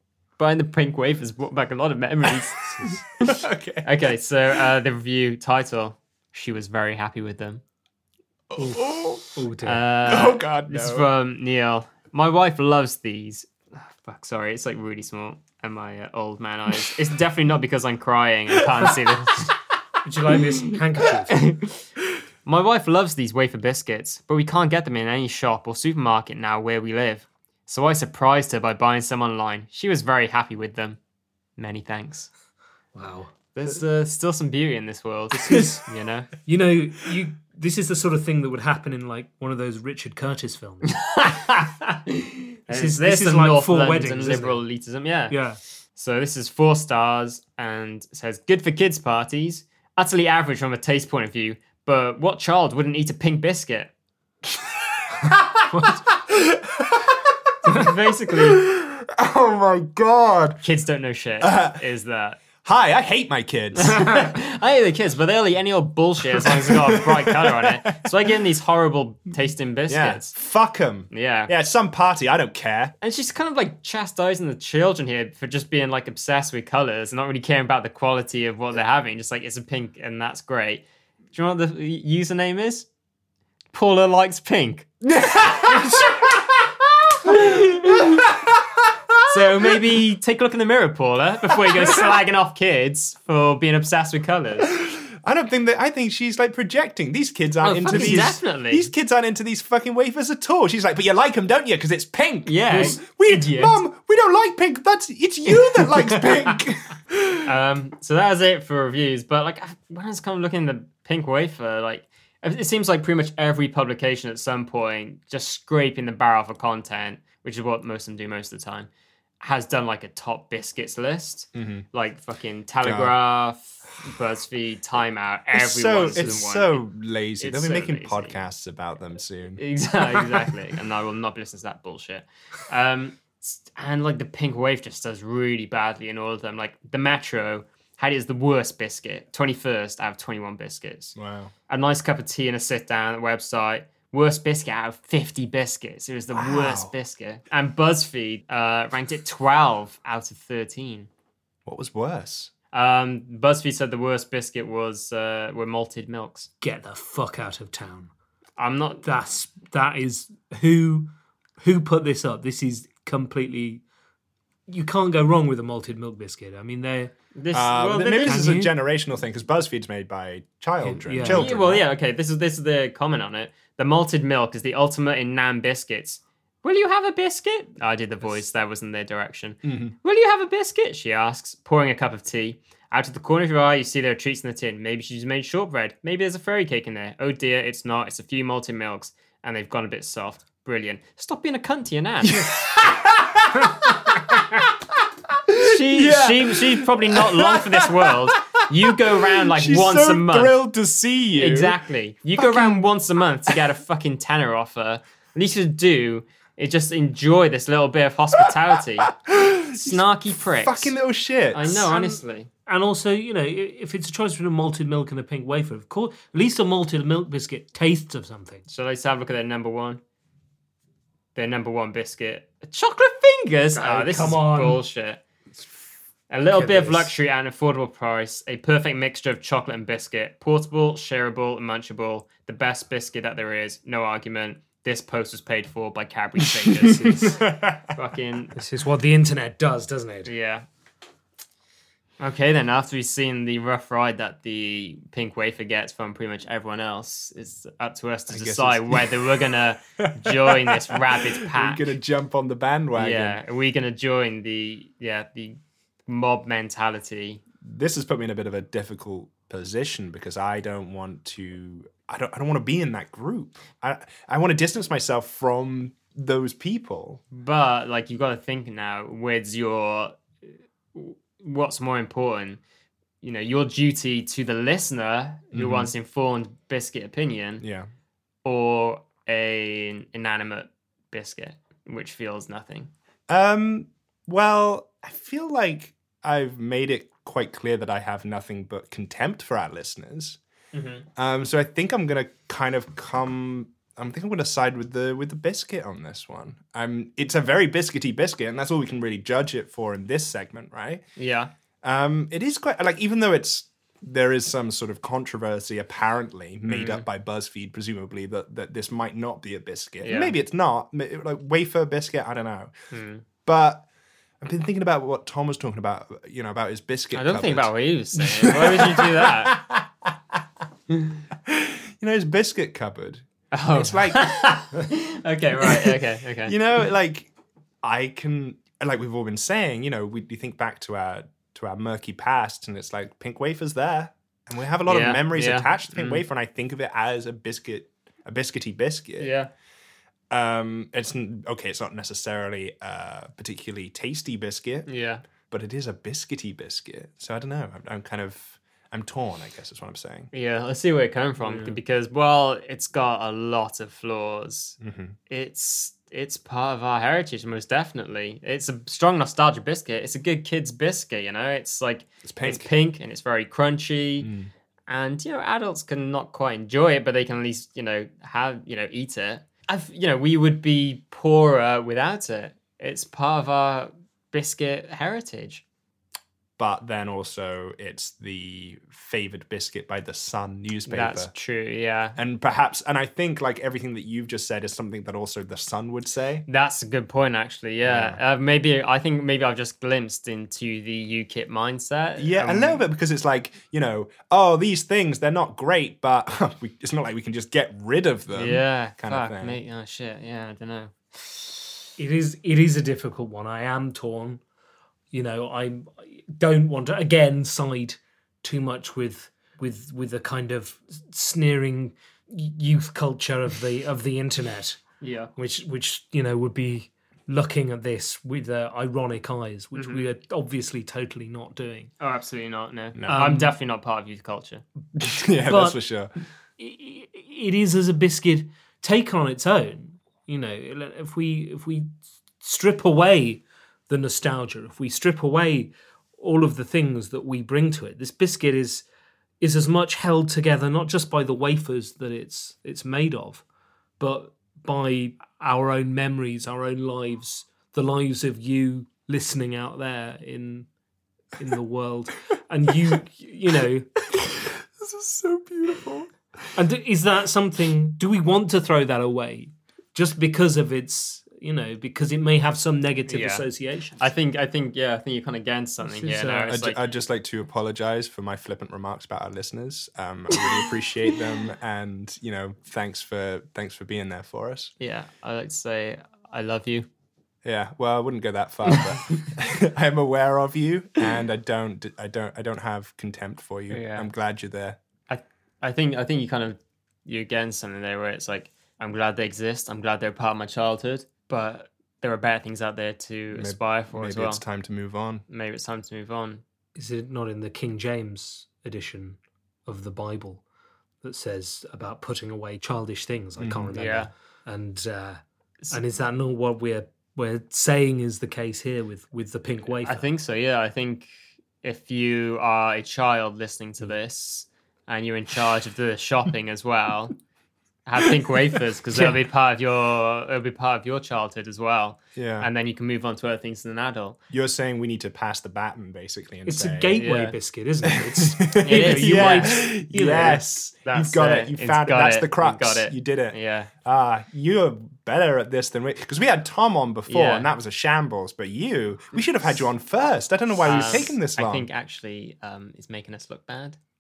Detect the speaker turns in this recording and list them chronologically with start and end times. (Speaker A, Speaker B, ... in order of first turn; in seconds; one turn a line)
Speaker A: 0.4-7.6
Speaker B: 3.2-4.1
Speaker B: 8.5-9.3
Speaker C: 8.6-9.8
Speaker A: 9.6-19.5
Speaker B: 10.0-11.1
Speaker C: 20.0-21.4
Speaker A: 21.3-21.8
Speaker A: 22.4-31.0
Speaker A: 31.6-32.3
Speaker C: 32.9-33.3
Speaker A: 33.5-36.3
Speaker C: 35.3-35.8
Speaker C: 36.4-41.0
Speaker A: 40.9-45.4
Speaker C: 42.7-44.6
Speaker C: 45.3-45.6
Speaker A: 45.9-53.9
Speaker B: 54.5-57.5
Speaker C: 55.7-56.0
Speaker A: 57.6-58.6
Speaker B: 58.3-60.6
Speaker A: 60.6-62.4
Speaker B: 61.4-61.8
Speaker B: 62.6-64.3
Speaker A: 63.7-70.3
Speaker B: 66.4-68.1
Speaker B: 69.9-72.9
Speaker A: 71.1-71.5
Speaker A: 73.0-82.9
Speaker A: 83.7-84.9
Speaker B: 85.0-89.8
Speaker A: 85.7-86.3
Speaker A: 87.2-88.2
Speaker A: 89.2-94.7
Speaker B: 91.7-92.1
Speaker B: 94.7-107.5
Speaker A: 97.6-98.9
Speaker C: 97.8-98.3
Speaker A: 102.5-103.8
Speaker A: 105.5-106.6
Speaker A: 107.4-118.9
Speaker A: 119.4-126.9
Speaker B: 121.5-121.8
Speaker B: 122.8-123.1
Speaker B: 125.5-129.6
Speaker A: 127.4-128.4
Speaker A: 129.6-141.2
Speaker B: 141.2-141.5
Speaker A: 141.7-151.1
Speaker B: 146.3-146.9
Speaker B: 151.7-152.5
Speaker A: 152.7-156.5
Speaker C: 156.6-158.1
Speaker A: 158.6-159.0
Speaker C: 159.0-163.8
Speaker C: 164.7-167.1
Speaker A: 167.3-168.5
Speaker B: 167.5-171.9
Speaker C: 168.2-168.7
Speaker C: 170.8-171.5
Speaker A: 171.3-192.5
Speaker B: 179.6-179.9
Speaker B: 192.2-194.7
Speaker B: 195.5-201.7
Speaker A: 195.6-200.7
Speaker A: 201.4-209.1
Speaker B: 202.4-202.8
Speaker B: 209.2-211.9
Speaker A: 209.7-210.9
Speaker A: 211.5-212.5
Speaker C: 211.9-218.6
Speaker A: 218.7-220.0
Speaker A: 221.3-225.2
Speaker C: 223.7-224.8
Speaker A: 226.3-238.5
Speaker C: 226.5-227.1
Speaker B: 236.7-237.9
Speaker C: 238.6-240.3
Speaker A: 240.2-240.6
Speaker A: 242.2-251.9
Speaker B: 248.3-249.4
Speaker B: 250.0-253.4
Speaker A: 252.9-257.4
Speaker B: 257.6-267.2
Speaker A: 267.3-270.2
Speaker A: 270.9-272.6
Speaker A: 273.2-277.6
Speaker B: 275.5-275.9
Speaker B: 277.6-277.9
Speaker A: 278.4-282.9
Speaker B: 283.3-290.4
Speaker A: 290.7-291.1
Speaker B: 291.2-301.0
Speaker A: 301.2-301.5
Speaker B: 301.8-312.7
Speaker A: 306.7-307.0
Speaker A: 310.0-310.3
Speaker A: 312.9-313.2
Speaker B: 313.4-313.8
Speaker B: 314.4-320.1
Speaker A: 317.1-319.6
Speaker B: 321.4-324.8
Speaker A: 323.5-326.6
Speaker B: 325.6-327.3
Speaker B: 327.8-339.3
Speaker A: 334.9-336.2
Speaker A: 339.2-339.5
Speaker B: 340.3-344.9
Speaker A: 344.9-345.2
Speaker B: 345.5-350.3
Speaker A: 350.3-354.8
Speaker C: 351.4-351.8
Speaker B: 354.8-355.1
Speaker A: 355.3-364.3
Speaker B: 362.2-362.7
Speaker B: 364.2-364.5
Speaker A: 364.9-375.6
Speaker B: 376.6-381.3
Speaker A: 380.9-382.2
Speaker B: 382.1-386.4
Speaker A: 386.5-392.9
Speaker B: 387.8-388.2
Speaker B: 392.2-399.6
Speaker A: 398.3-401.6
Speaker C: 402.0-404.4
Speaker C: 405.1-414.8
Speaker A: 415.0-415.3
Speaker C: 415.4-421.9
Speaker A: 419.7-420.0
Speaker A: 422.0-424.6
Speaker B: 422.9-423.4
Speaker C: 423.1-423.5
Speaker B: 425.0-426.1
Speaker C: 425.4-425.8
Speaker C: 426.6-431.9
Speaker C: 432.4-438.8
Speaker C: 439.4-443.4
Speaker C: 444.0-450.7
Speaker C: 451.4-453.9
Speaker B: 454.2-456.1
Speaker C: 456.5-464.0
Speaker A: 463.1-463.4
Speaker A: 464.0-466.9
Speaker C: 465.8-466.5
Speaker B: 466.5-474.7
Speaker A: 474.8-476.9
Speaker B: 477.4-484.8
Speaker A: 483.7-484.1
Speaker A: 485.1-494.4
Speaker B: 493.3-495.2
Speaker A: 495.3-496.4
Speaker C: 496.8-500.4
Speaker C: 501.0-510.1
Speaker B: 503.4-503.8
Speaker A: 503.7-504.1
Speaker A: 509.7-511.1
Speaker A: 511.6-517.1
Speaker A: 517.9-524.2
Speaker B: 522.1-522.5
Speaker B: 524.3-527.0
Speaker C: 526.5-530.4
Speaker A: 527.0-527.4
Speaker B: 527.9-541.7
Speaker A: 528.6-533.7
Speaker A: 537.1-537.5
Speaker A: 540.6-543.8